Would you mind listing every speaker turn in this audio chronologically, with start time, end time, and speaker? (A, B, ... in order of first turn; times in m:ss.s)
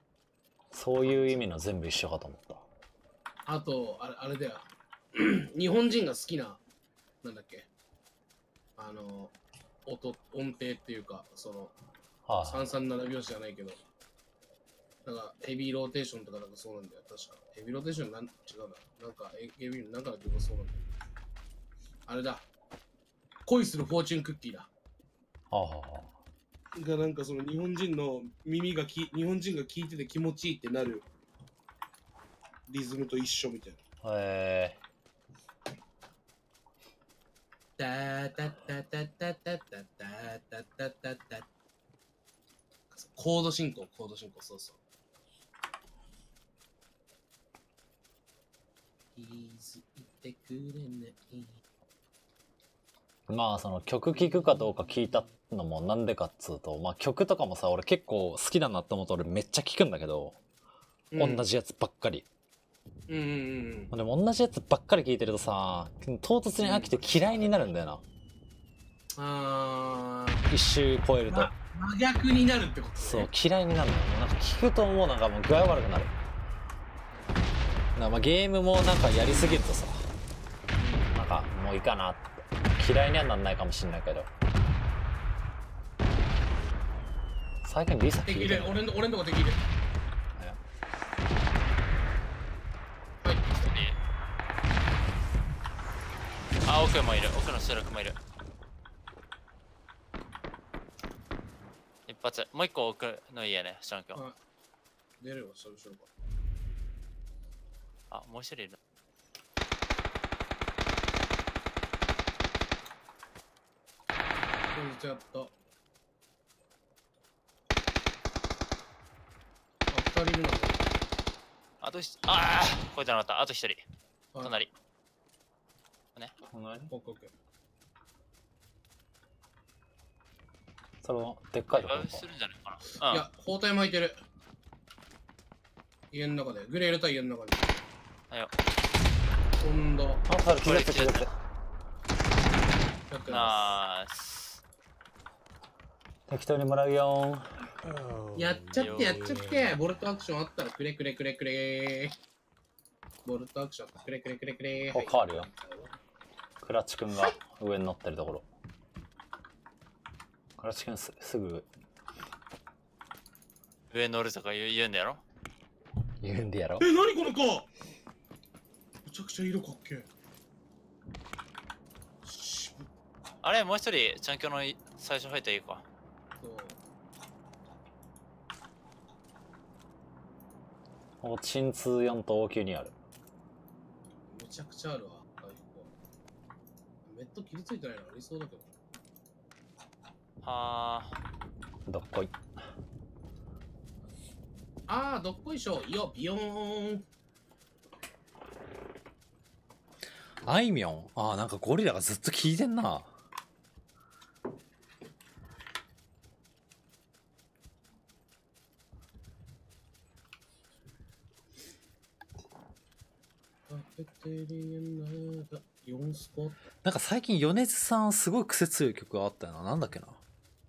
0:00.7-0:02.6 A
0:01.0-0:01.4 B
0:03.5-0:06.6 B
0:07.2-0:07.7 B
0:08.8-0:09.3 B
0:09.9-0:11.7 B
0:12.3-0:12.7 A
0:12.5-0:13.8 B
0:15.0-0:20.8 B
0:22.1-0:22.5 B
0:23.5-0:24.7 B
0:25.5-0:26.1 A
0:26.8-0:31.1 B
0:32.7-0:33.8 B
0:34.0-0:34.8 A
0:37.8-0:41.5 B
0:42.9-0:44.8 B
0:49.2-0:51.6 B
0:53.3-1:00.4 A
0:54.2-0:54.6 B
1:01.1-1:01.4 B
1:01.2-1:02.3 A
1:03.1-1:03.9 B
1:03.9-1:08.0 A
1:06.6-1:07.8 B
1:09.2-1:10.5 B
1:10.5-1:11.5 A
1:11.3-1:13.3 B
1:13.0-1:16.1 A
1:18.0-1:20.1 A
1:20.8-1:21.1 B
1:21.1-1:24.3 A
1:27.6-1:28.8 A
1:28.3-1:29.6 B
1:30.4-1:30.6 A
1:33.2-1:33.6 B
1:33.6-1:34.0 C
1:36.6-1:38.2 C
1:42.1-1:44.2 C
1:45.2-1:46.1 B
1:48.1-1:48.8 C
1:54.7-1:55.5 B
1:59.9-2:00.8 B
2:01.8-2:03.8 C
2:04.3-2:04.6 B
2:04.4-2:04.7 C
2:06.4-2:06.9 A
2:06.9-2:07.3 B
2:11.0-2:12.3 A
2:11.8-2:13.3 C
2:13.1-2:14.2 B
2:16.1-2:17.7 B
2:19.6-2:20.2 B
2:20.3-2:21.3 A
2:20.6-2:21.3 C
2:23.1-2:23.8 B
2:23.3-2:24.6 C
2:26.3-2:27.5 A
2:28.3-2:32.2 B
2:28.8-2:29.2 C
2:33.2-2:35.9 B
2:34.9-2:35.5 A
2:36.6-2:38.5 A
2:40.6-2:41.7 A
2:43.9-2:45.2 C
2:46.2-2:46.9 A
2:46.8-2:47.7 B
2:49.0-2:50.1 B
2:52.2-2:52.9 B
2:53.4-2:55.8 C
2:56.4-2:56.8 B
3:01.2-3:02.9 A
3:04.3-3:05.9 B
3:07.0-3:08.7 B
3:10.4-3:11.2 C
3:11.9-3:12.4 A
3:14.9-3:17.0 B
3:20.5-3:23.1 A
3:33.7-3:36.6 B
3:36.8-3:40.2 A